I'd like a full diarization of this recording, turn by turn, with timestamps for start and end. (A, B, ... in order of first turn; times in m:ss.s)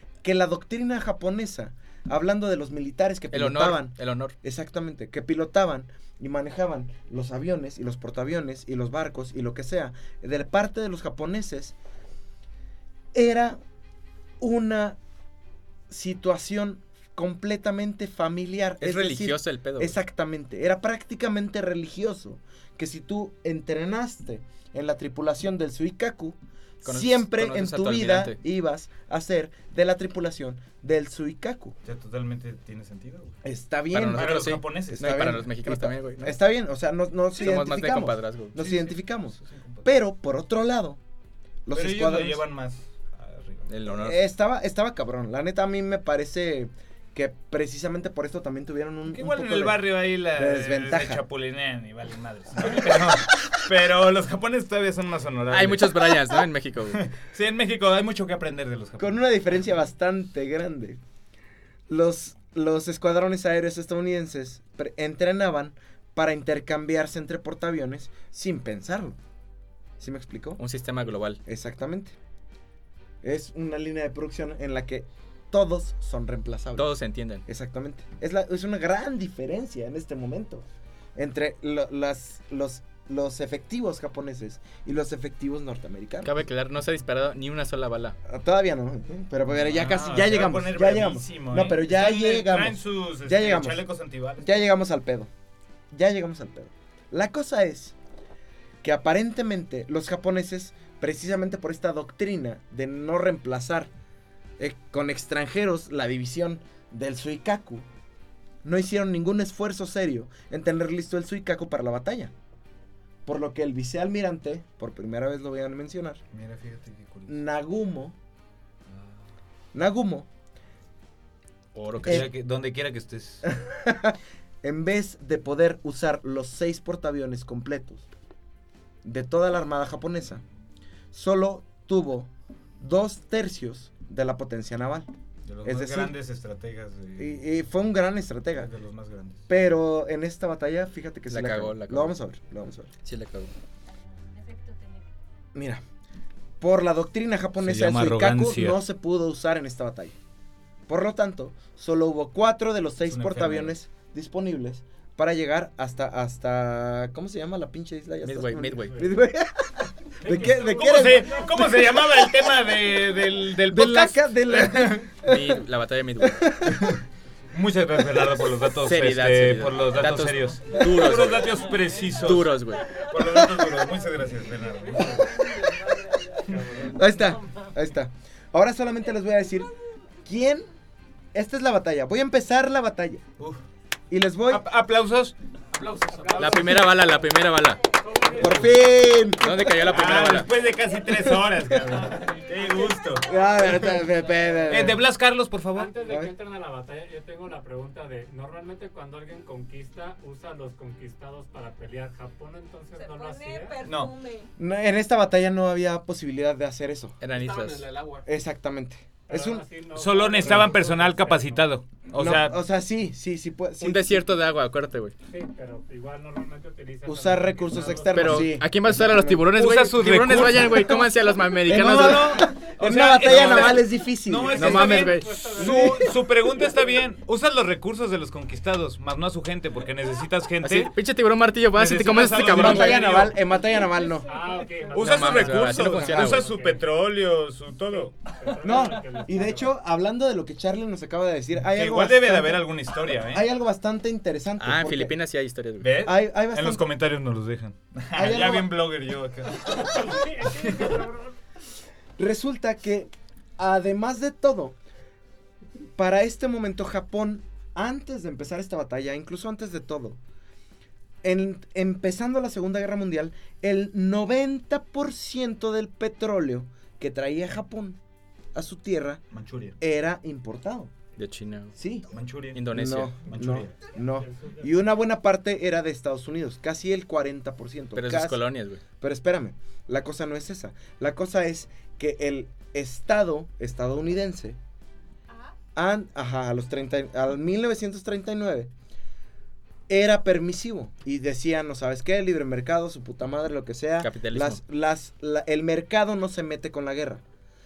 0:00.2-0:11.7 A
0:03.3-0:04.3 B
0:13.1-0:13.6 A
0:14.4-0:15.0 A
0:15.9-0:31.8 A
0:18.8-0:20.0 B
0:26.8-0:28.4 B
0:31.8-0:33.4 C
0:33.4-0:41.0 A
0:33.9-0:36.4 B
0:34.1-0:35.1 C
0:37.3-0:38.6 B
0:38.6-0:39.9 C
0:41.6-0:42.4 A
0:41.7-0:43.7 C
0:43.7-0:44.2 B
0:43.9-0:51.2 A
0:49.1-0:56.2 C
0:52.7-0:53.0 A
0:55.5-0:57.0 B
0:56.9-0:59.2 C
0:59.0-1:01.0 A
1:01.9-1:09.2 A
1:10.0-1:10.6 A
1:10.6-1:11.4 B
1:11.4-1:12.1 A
1:13.2-1:16.9 A
1:16.8-1:17.4 B
1:17.4-1:20.6 A
1:21.2-1:26.3 A
1:26.2-1:28.2 B
1:28.2-1:33.8 A
1:29.5-1:34.6 C
1:34.4-1:35.3 A
1:35.9-1:37.9 A
1:38.8-1:43.9 A
1:44.6-1:47.8 A
1:48.6-1:52.3 A
1:53.2-1:56.2 A
1:56.3-1:57.4 C
1:57.3-1:58.2 A
1:59.7-2:00.3 A
2:01.7-2:02.3 B
2:02.0-2:02.3 A
2:02.0-2:03.5 C
2:03.4-2:08.0 A
2:09.0-2:10.4 A
2:11.1-2:15.1 A
2:15.4-2:17.5 C
2:15.6-2:16.1 A
2:17.2-2:18.7 A
2:18.5-2:19.5 C
2:19.5-2:22.9 A
2:21.3-2:22.1 B
2:23.0-2:23.5 B
2:23.9-2:25.1 D
2:25.5-2:25.8 A
2:26.6-2:30.1 A
2:27.6-2:28.8 C
2:30.9-2:42.1 A
2:33.1-2:33.7 C
2:38.2-2:39.1 B
2:40.2-2:41.2 E
2:40.2-2:45.1 C
2:43.7-2:45.6 A
2:45.2-2:46.6 B
2:46.2-2:47.0 A
2:46.7-2:55.3 C
2:48.8-2:51.6 B
2:51.6-2:52.5 E
2:52.1-2:52.9 B
2:53.2-2:56.4 D
2:53.3-2:53.6 A
2:54.8-2:57.7 E
2:56.5-2:56.8 C
2:56.8-2:59.7 A
3:00.2-3:00.6 A
3:01.3-3:03.2 A
3:04.1-3:04.6 A
3:04.5-3:05.3 C
3:05.7-3:07.0 E
3:06.3-3:06.5 C
3:06.3-3:07.8 B
3:08.0-3:08.9 E
3:08.2-3:08.4 D
3:08.3-3:09.8 A
3:09.4-3:10.6 B
3:09.7-3:14.0 C
3:12.0-3:12.6 E
3:12.0-3:14.0 D
3:13.2-3:15.0 A
3:14.7-3:15.9 C
3:15.7-3:23.8 E
3:16.0-3:16.3 A
3:23.0-3:24.5 D
3:23.8-3:24.1 C
3:24.6-3:27.2 A
3:27.2-3:28.0 B
3:28.2-3:29.6 A
3:29.3-3:31.7 E
3:29.9-3:32.6 C
3:32.1-3:34.2 A
3:33.8-3:35.1 B
3:35.3-3:38.6 E
3:37.0-3:39.4 A
3:38.1-3:42.5 B
3:39.5-3:40.9 C
3:40.7-3:41.0 A
3:41.6-3:46.1 A
3:41.7-3:50.9 C
3:43.3-3:43.7 B
3:44.4-3:46.2 E
3:44.6-3:45.3 B
3:50.6-3:53.2 B
3:51.7-3:53.4 C
3:52.3-3:54.3 A
3:53.5-3:55.0 D
3:54.1-3:56.8 E
3:54.9-3:58.4 C
3:55.0-3:56.5 B
3:55.9-3:56.4 A
3:58.2-3:59.7 E
3:58.6-4:05.2 A
4:01.6-4:03.5 C
4:04.6-4:05.9 B
4:05.8-4:11.0 C
4:06.0-4:06.8 A
4:08.1-4:08.7 A
4:09.7-4:11.4 E
4:12.2-4:14.8 A
4:16.0-4:20.2 A
4:21.2-4:28.0 A
4:28.5-4:29.2 A
4:29.3-4:29.8 C
4:29.8-4:30.9 A
4:31.2-4:31.7 B
4:31.8-4:32.1 A
4:32.1-4:32.6 C
4:32.5-4:33.1 B
4:32.7-4:38.4 A
4:33.2-4:33.7 C
4:34.1-4:34.7 E
4:37.9-4:38.8 B
4:39.0-4:44.6 A
4:45.3-4:45.6 D
4:45.7-4:48.7 A
4:49.9-4:57.2 A
4:54.0-4:54.6 B